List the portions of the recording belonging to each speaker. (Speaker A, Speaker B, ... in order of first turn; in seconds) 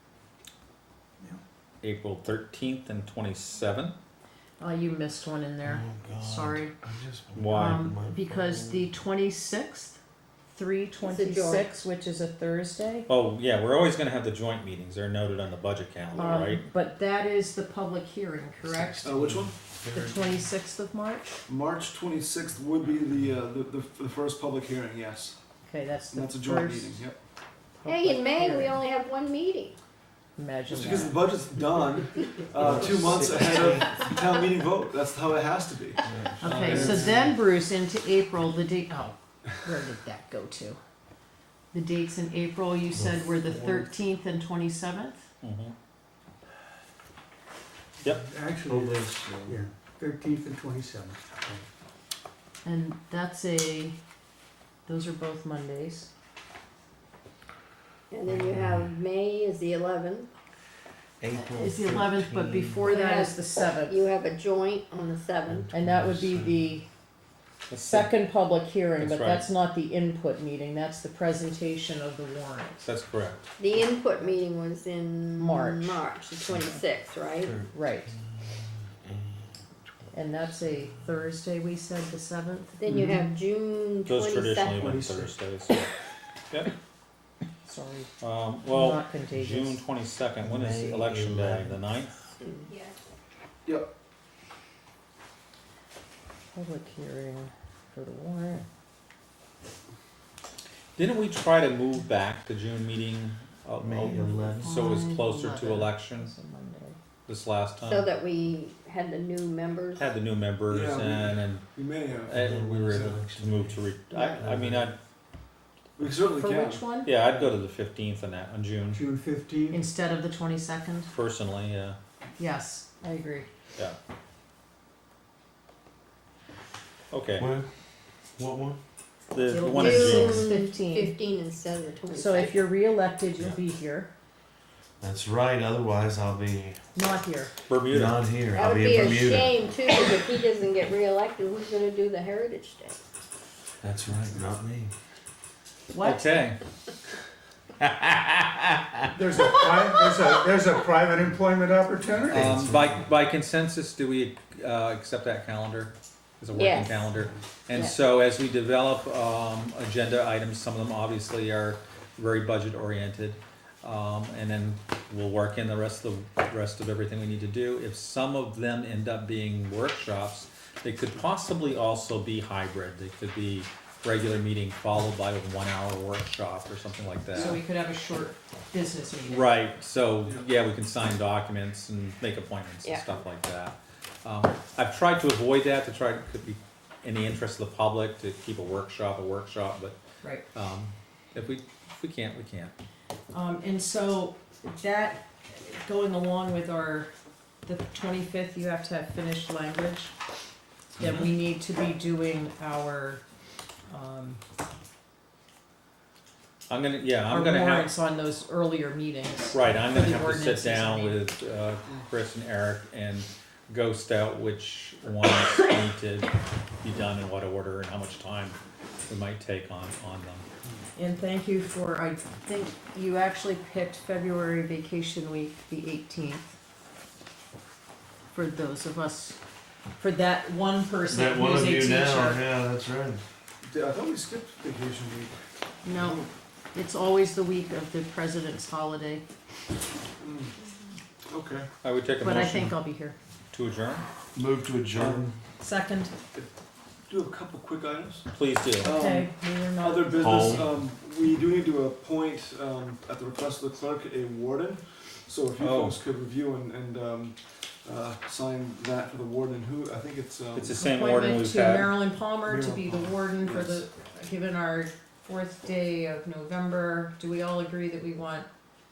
Speaker A: 1.8-4.0, 7.3-7.9, 13.1-16.6, 45.4-45.7, 67.7-68.1, 69.0-69.5, 72.8-73.5, 84.0-85.9, 88.2-92.3, 101.0-106.3, 107.2-108.1, 110.0-111.7, 112.2-115.0, 117.0-119.0, 121.1-122.0, 127.1-127.5, 129.3-130.6, 137.7-138.2, 146.0-146.6, 152.3-177.6, 179.2-189.9, 190.5-192.7, 201.0-201.3, 206.7-207.9, 209.5-220.4, 241.8-242.8, 243.5-244.0, 248.3-249.0, 255.6-256.0, 260.5-262.0
Speaker B: 4.6-6.7, 7.5-10.0, 10.5-13.1, 16.1-19.2, 19.9-21.4, 25.7-27.0, 27.8-28.8, 30.4-31.2, 36.4-40.8, 41.7-45.2, 52.6-54.0, 54.9-56.1, 61.3-64.1, 65.7-66.8, 67.8-72.8, 75.4-76.0, 77.7-78.1, 80.1-83.0, 87.6-88.1, 88.6-89.8, 96.5-98.7, 104.0-107.0, 116.3-117.2, 119.7-121.1, 122.4-123.5, 129.5-131.2, 132.1-134.1, 136.9-137.5, 145.9-146.4, 177.3-179.6, 193.3-197.1, 197.6-200.1, 201.0-203.2, 203.9-204.4, 207.2-211.2, 220.9-226.5, 228.3-229.4, 230.0-232.4, 235.8-239.2, 242.2-243.2, 245.6-246.1, 248.8-250.6, 260.7-268.5
Speaker C: 5.6-8.9, 19.1-20.2, 32.6-33.9, 36.1-37.3, 42.9-43.9, 48.6-49.7, 61.2-62.9, 65.5-66.6, 90.4-91.8, 103.8-105.0, 112.3-113.8, 114.4-114.9, 127.4-127.7, 128.4-128.8, 135.0-136.8, 137.9-139.5, 143.8-144.9, 147.8-148.5, 152.3-153.0, 231.0-233.2, 244.3-245.3, 250.2-250.7
Speaker D: 11.0-11.8, 16.1-16.5, 27.9-29.8, 58.1-60.3, 62.8-65.7, 73.6-77.6, 82.8-84.9, 92.4-92.7, 107.8-110.1, 114.1-114.4, 129.5-132.6, 138.5-143.0, 156.5-157.0, 182.8-183.1
Speaker E: 19.0-19.5, 21.5-25.4, 26.1-27.2, 30.7-37.2, 110.7-113.2, 116.0-116.8, 233.6-236.3, 240.2-240.5, 241.3-241.7, 244.9-245.3, 247.1-248.2, 248.8-260.8, 262.4-263.9
Speaker F: 48.1-51.6, 82.9-83.2, 84.8-85.3, 118.9-119.8, 149.1-152.6